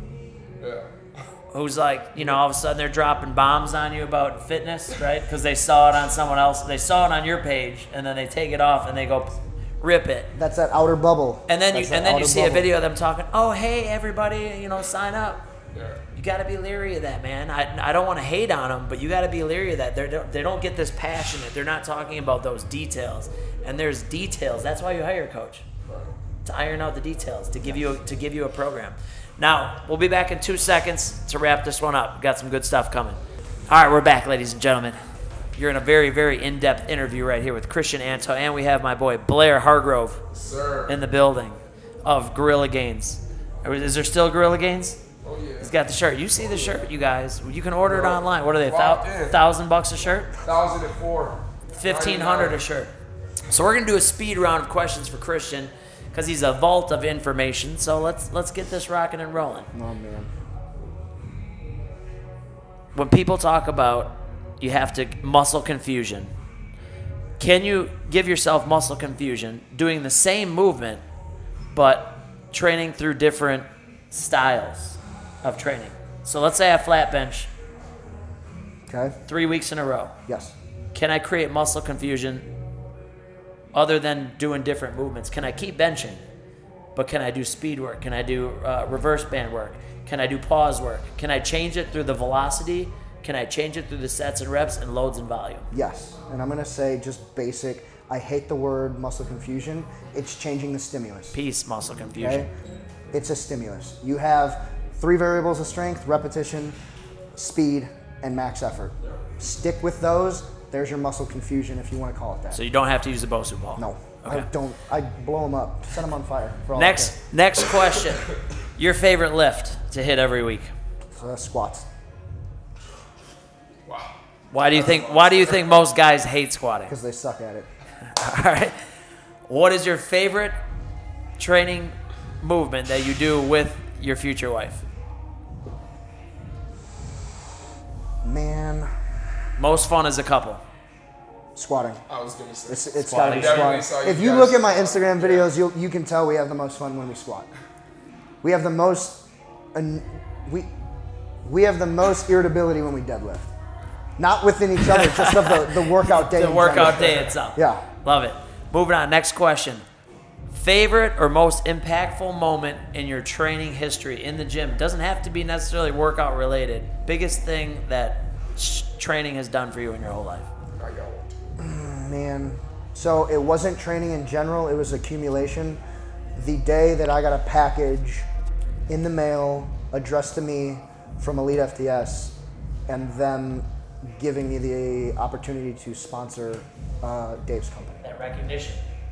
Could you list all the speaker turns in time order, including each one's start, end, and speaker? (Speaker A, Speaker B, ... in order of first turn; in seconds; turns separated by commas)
Speaker A: 0.6-0.9, Speaker B: 1.5-10.3, Speaker C: 10.3-12.7, Speaker B: 11.5-15.4, Speaker A: 15.7-16.0, Speaker B: 16.1-25.6, Speaker A: 25.9-26.1, Speaker B: 26.4-35.0, Speaker C: 27.6-28.0, Speaker B: 35.5-40.2, Speaker A: 40.3-41.0, Speaker B: 40.9-45.0, Speaker A: 45.2-45.7, Speaker B: 45.6-50.3, Speaker A: 46.4-46.9, Speaker A: 47.8-49.4, Speaker A: 50.4-52.6, Speaker B: 51.7-52.9, Speaker B: 53.5-59.7, Speaker C: 59.7-60.3, Speaker B: 63.0-66.3, Speaker B: 67.4-71.0, Speaker B: 71.7-77.5, Speaker C: 78.9-79.2, Speaker B: 79.3-80.2, Speaker C: 80.3-80.5, Speaker B: 80.9-82.5, Speaker B: 83.7-86.2, Speaker B: 87.0-95.7, Speaker C: 95.7-101.4, Speaker B: 101.3-102.5, Speaker C: 102.2-102.5, Speaker C: 103.1-106.8, Speaker C: 107.4-112.6, Speaker B: 112.5-114.5, Speaker C: 113.8-117.1, Speaker B: 116.8-120.7, Speaker C: 121.1-121.9, Speaker A: 123.9-124.1, Speaker B: 124.5-126.9, Speaker A: 124.7-125.7, Speaker C: 126.9-127.7, Speaker B: 128.1-128.8, Speaker B: 129.5-130.5, Speaker B: 131.4-134.8, Speaker C: 138.2-138.9, Speaker B: 139.6-140.6, Speaker C: 141.6-142.0, Speaker A: 142.1-145.5, Speaker C: 142.7-147.5, Speaker B: 143.1-143.8, Speaker C: 148.4-150.7, Speaker C: 151.4-153.5, Speaker C: 154.2-157.9, Speaker B: 154.8-159.8, Speaker B: 160.5-170.5, Speaker A: 170.8-171.3, Speaker C: 171.6-175.8, Speaker C: 176.3-178.3, Speaker C: 178.9-182.4, Speaker C: 182.9-188.0, Speaker B: 188.0-188.8